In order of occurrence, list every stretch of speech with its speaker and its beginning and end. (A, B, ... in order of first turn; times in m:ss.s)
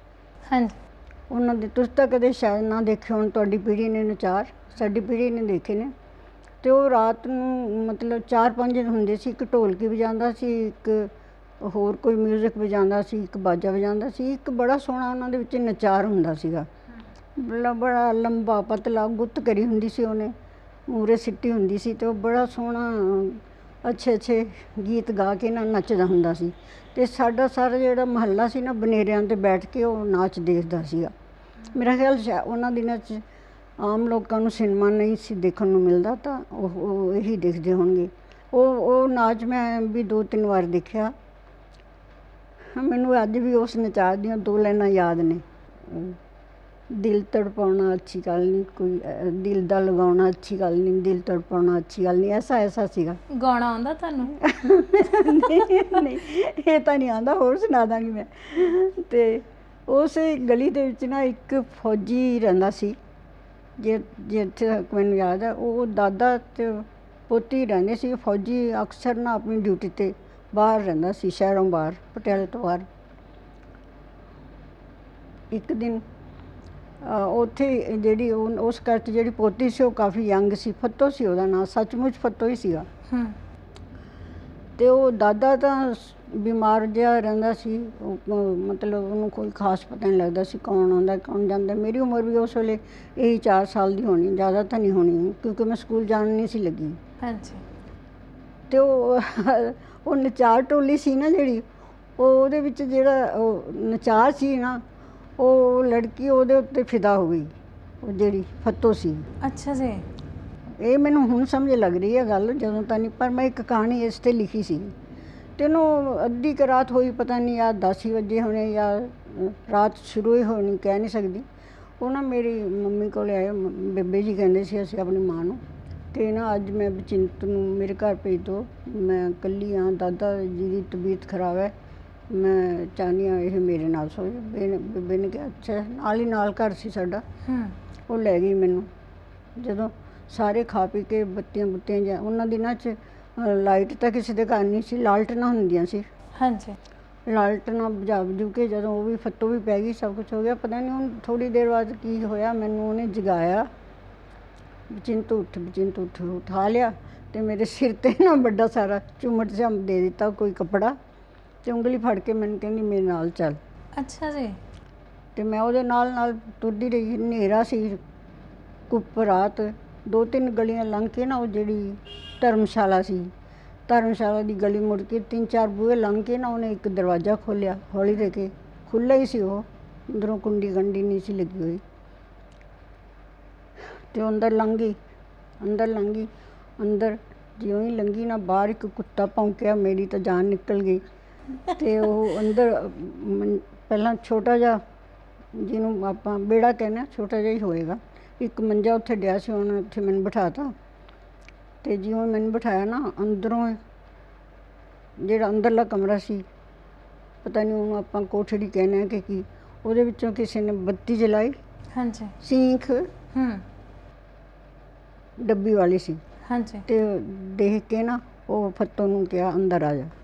0:00.5-0:00.8 A
0:01.3-0:05.9 B
0:06.6-0:16.7 B
0:17.4-0:20.3 B
0:20.9-0:31.1 B
0:31.7-0:33.2 B
0:33.8-0:41.1 B
0:42.7-0:46.2 B
0:46.9-0:53.2 B
0:53.3-0:54.4 A
0:54.4-1:03.0 B
1:03.8-1:12.9 B
1:15.5-1:16.0 B
1:17.0-1:22.9 B
1:23.1-1:23.4 A
1:24.8-1:37.0 B
1:37.2-1:37.6 A
1:38.7-1:41.6 B
1:42.2-1:44.8 B
1:45.4-1:49.2 B
1:49.4-1:50.0 A
1:50.8-1:54.9 B
1:55.6-2:01.4 B
2:02.0-2:05.6 B
2:06.1-2:11.7 B
2:12.3-2:17.2 B
2:17.4-2:17.7 A
2:18.1-2:18.9 B
2:19.6-2:26.0 B
2:26.4-2:26.8 A
2:27.2-2:33.7 B
2:34.9-2:40.9 B
2:41.6-2:43.6 B
2:44.0-2:44.6 A
2:45.4-2:48.0 B
2:48.9-2:53.3 B
2:53.9-3:01.8 B
3:04.1-3:05.0 B
3:05.6-3:11.0 B
3:11.6-3:14.8 B
3:15.5-3:20.7 B
3:21.8-3:23.8 B
3:25.2-3:26.4 B
3:27.4-3:31.6 B
3:31.9-3:32.3 A
3:32.4-3:33.1 B
3:33.3-3:33.6 A
3:35.4-3:36.2 B
3:36.5-3:36.8 A
3:36.9-3:40.1 B